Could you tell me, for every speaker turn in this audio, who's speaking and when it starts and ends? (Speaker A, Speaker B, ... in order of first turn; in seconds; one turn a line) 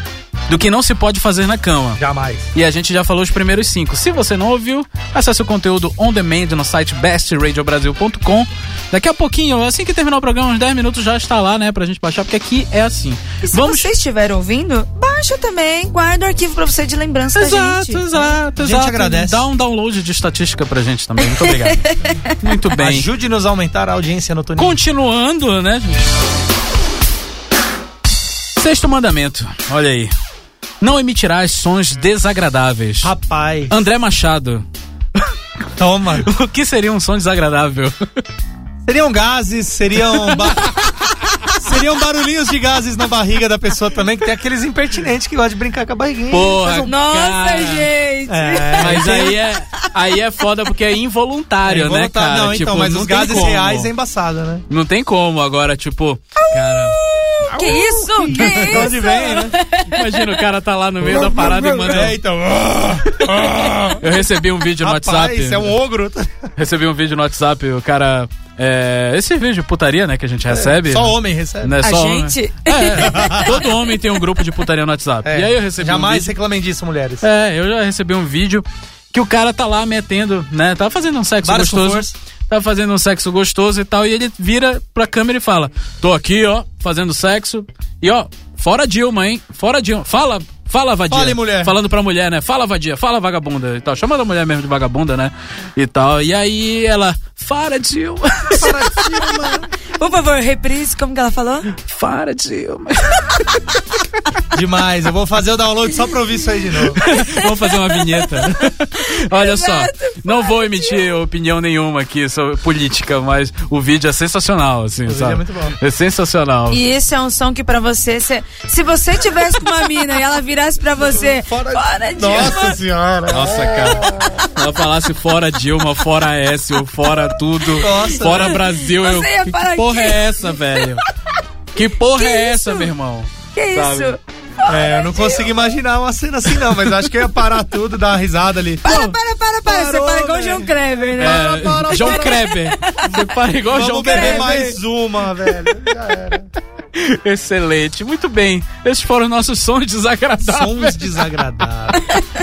Speaker A: 0.5-2.0
Speaker B: 2.0-2.5
Speaker A: 2.5-13.9
Speaker C: 13.4-18.4
Speaker A: 17.3-23.1
Speaker B: 18.6-19.4
Speaker C: 21.4-22.3
Speaker B: 22.8-24.8
Speaker A: 24.6-26.1
Speaker A: 28.6-30.1
Speaker A: 30.8-33.1
Speaker B: 33.0-33.7
Speaker A: 33.7-34.6
Speaker B: 35.8-36.3
Speaker A: 36.2-37.9
Speaker B: 38.9-40.8
Speaker B: 41.5-46.9
Speaker A: 46.3-47.9
Speaker C: 46.8-49.3
Speaker B: 48.3-49.4
Speaker A: 48.8-53.9
Speaker B: 51.6-54.6
Speaker A: 54.7-57.0
Speaker C: 57.0-60.2
Speaker B: 57.5-59.6
Speaker A: 58.5-58.9
Speaker A: 59.9-62.2
Speaker B: 61.0-64.1
Speaker A: 64.0-65.7
Speaker B: 64.8-66.5
Speaker A: 66.6-76.3
Speaker B: 70.5-71.8
Speaker C: 71.8-73.7
Speaker B: 73.0-73.6
Speaker B: 75.2-77.2
Speaker A: 77.2-99.0
Speaker B: 81.4-82.1
Speaker B: 91.1-91.8
Speaker B: 98.5-99.7
Speaker C: 100.0-101.7
Speaker A: 101.7-103.6
Speaker B: 104.5-107.0
Speaker A: 106.9-116.8
Speaker C: 107.0-111.0
Speaker B: 115.0-115.8
Speaker C: 116.7-122.8
Speaker B: 121.1-124.4
Speaker A: 123.3-131.0
Speaker B: 127.8-128.6
Speaker C: 127.9-130.8
Speaker A: 131.7-134.1
Speaker C: 132.1-132.9
Speaker C: 133.5-135.4
Speaker B: 134.7-138.8
Speaker C: 138.8-143.1
Speaker A: 138.8-139.1
Speaker B: 139.6-142.5
Speaker A: 141.2-144.7
Speaker B: 143.7-146.5
Speaker C: 144.0-144.7
Speaker A: 146.9-151.3
Speaker B: 150.4-152.0